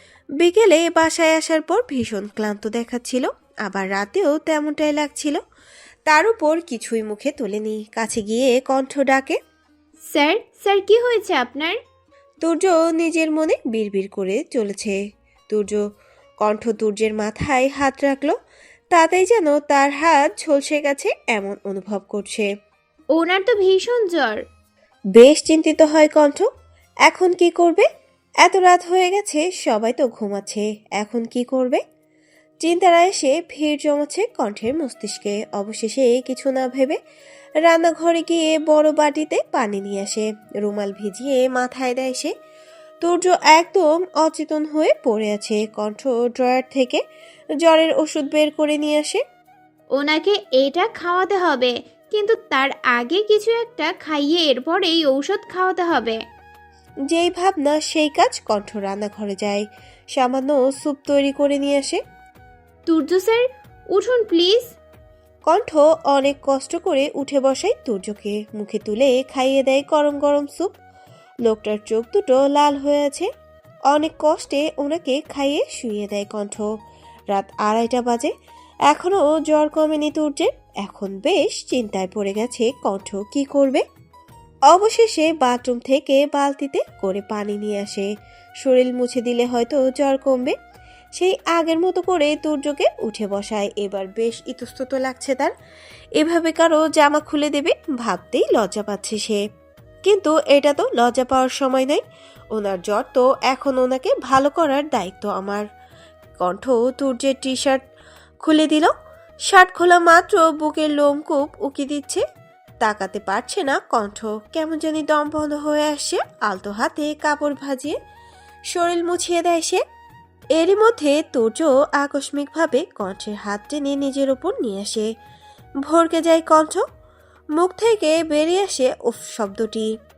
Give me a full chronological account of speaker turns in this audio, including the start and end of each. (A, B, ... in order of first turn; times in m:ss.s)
0:00.4-0:05.4 A
0:06.1-0:09.4 A
0:10.1-0:11.8 B
0:12.4-0:15.0 A
0:15.5-0:15.8 A
0:16.4-0:18.3 A
0:18.9-0:22.5 A
0:23.1-0:24.4 B
0:25.1-0:26.5 A
0:27.1-0:27.8 A
0:28.4-0:31.8 A
0:32.6-0:37.0 A
0:37.6-0:42.3 A
0:43.0-0:47.0 A
0:47.6-0:49.2 A
0:50.0-0:56.2 B
0:57.1-1:02.0 A
1:02.9-1:03.4 B
1:03.9-1:04.7 B
1:05.5-1:10.7 A
1:11.4-1:13.3 A
1:13.9-1:16.6 A
1:17.3-1:18.3 A
1:18.9-1:23.8 A
1:24.7-1:28.1 A
1:28.6-1:30.5 A
1:31.2-1:35.5 A
1:36.2-1:39.4 A
1:40.0-1:42.0 A
1:42.5-1:45.6 A
1:46.4-1:47.8 A
1:48.4-1:48.9 A
1:49.5-1:52.2 A
1:52.8-1:58.0 A
1:58.7-1:59.8 A
2:00.6-2:05.1 A
2:05.8-2:06.8 A
2:07.6-2:09.9 A